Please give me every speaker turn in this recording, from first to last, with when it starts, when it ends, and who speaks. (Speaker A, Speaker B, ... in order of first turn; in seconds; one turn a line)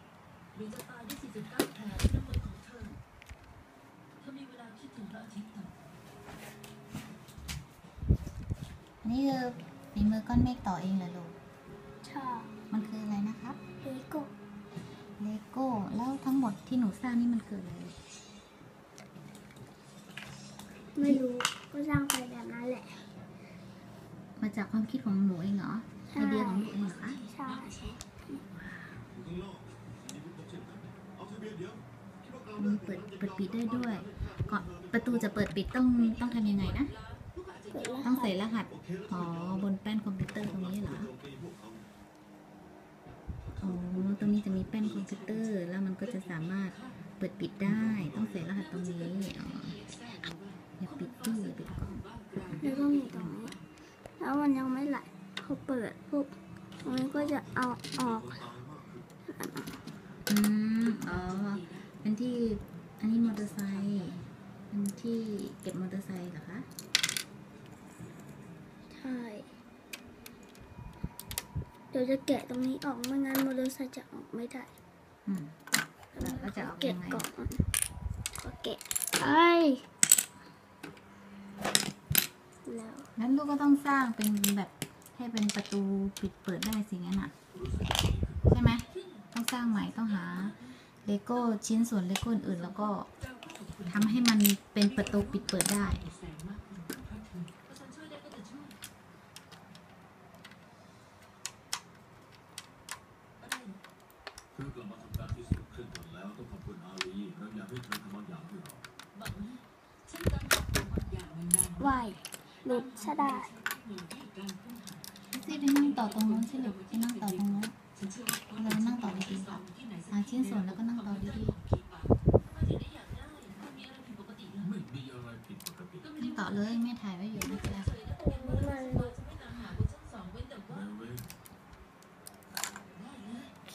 Speaker A: 0.5-2.9
Speaker A: 4.2-5.7
Speaker B: 9.0-11.4
Speaker C: 12.0-12.5
Speaker B: 12.7-13.6
Speaker C: 13.8-14.3
Speaker B: 15.2-17.9
Speaker C: 20.9-23.0
Speaker B: 24.4-27.2
Speaker C: 26.1-28.4
Speaker A: 26.2-28.0
Speaker D: 28.9-35.5
Speaker B: 32.6-36.9
Speaker A: 35.8-38.5
Speaker C: 37.7-38.3
Speaker B: 38.0-41.1
Speaker D: 38.6-39.7
Speaker D: 40.2-41.9
Speaker D: 43.4-45.3
Speaker B: 43.6-49.8
Speaker A: 44.8-47.0
Speaker D: 47.6-48.5
Speaker A: 48.4-53.7
Speaker B: 50.8-52.0
Speaker D: 52.5-52.9
Speaker C: 52.6-58.4
Speaker D: 56.8-59.0
Speaker C: 59.3-59.8
Speaker B: 60.3-64.2
Speaker A: 60.8-61.9
Speaker A: 63.1-64.3
Speaker B: 64.7-66.7
Speaker C: 68.9-69.5
Speaker C: 71.9-74.7
Speaker B: 75.2-75.5
Speaker C: 76.1-77.6
Speaker B: 76.2-77.2
Speaker C: 78.4-79.8
Speaker C: 82.7-83.1
Speaker B: 83.2-87.3
Speaker D: 87.5-88.6
Speaker B: 88.5-93.1
Speaker A: 88.8-91.5
Speaker A: 92.5-98.8
Speaker B: 93.9-96.1
Speaker A: 103.4-103.8
Speaker D: 104.5-108.8
Speaker A: 109.1-124.7
Speaker C: 111.8-113.5
Speaker B: 115.3-117.8
Speaker B: 118.5-121.5
Speaker D: 124.6-126.1
Speaker A: 126.0-126.8
Speaker B: 126.2-127.9
Speaker A: 127.4-130.9
Speaker C: 128.2-129.2
Speaker D: 130.7-131.3
Speaker A: 132.9-133.5